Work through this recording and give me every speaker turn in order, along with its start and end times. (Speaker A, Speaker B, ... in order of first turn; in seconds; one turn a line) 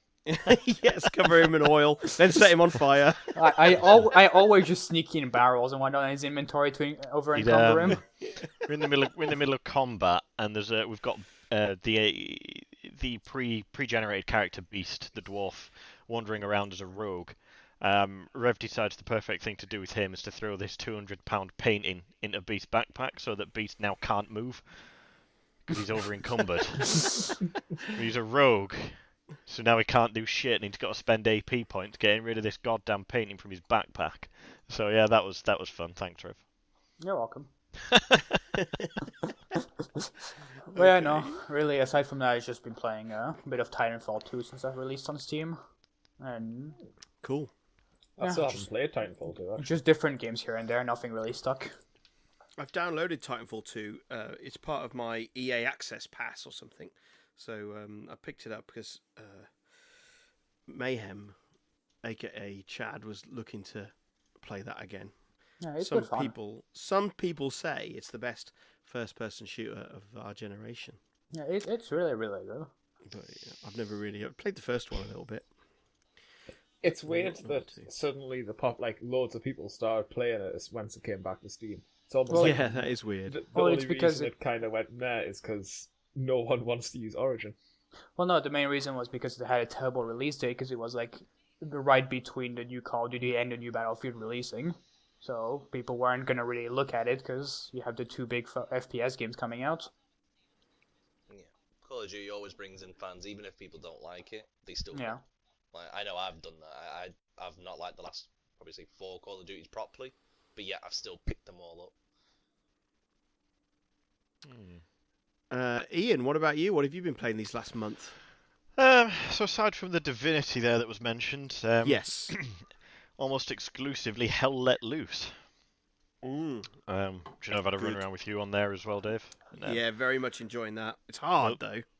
Speaker A: 0.3-3.9
Speaker B: 3.3-8.0
Speaker C: 7.3-27.3
Speaker C: 27.8-36.4
Speaker B: 37.0-37.5
Speaker C: 38.0-38.2
Speaker A: 40.7-41.3
Speaker B: 40.7-45.6
Speaker B: 46.2-46.8
Speaker A: 47.2-47.5
Speaker D: 48.2-49.7
Speaker B: 48.2-48.7
Speaker B: 49.5-51.7
Speaker A: 52.6-59.5
Speaker A: 60.7-61.3
Speaker A: 62.0-65.1
Speaker B: 65.6-66.3
Speaker A: 65.8-71.0
Speaker B: 71.3-72.7
Speaker A: 73.0-75.5
Speaker D: 76.8-87.5
Speaker A: 77.1-77.9
Speaker B: 82.3-82.6
Speaker A: 82.3-83.3
Speaker B: 83.5-84.3
Speaker B: 88.2-99.9
Speaker E: 101.3-105.2
Speaker B: 104.9-105.2
Speaker E: 105.7-111.9
Speaker C: 114.4-114.8
Speaker A: 115.5-118.2
Speaker C: 118.8-125.5
Speaker A: 121.8-122.3
Speaker A: 126.2-126.8
Speaker C: 126.9-129.8
Speaker A: 127.8-128.0
Speaker A: 129.5-131.8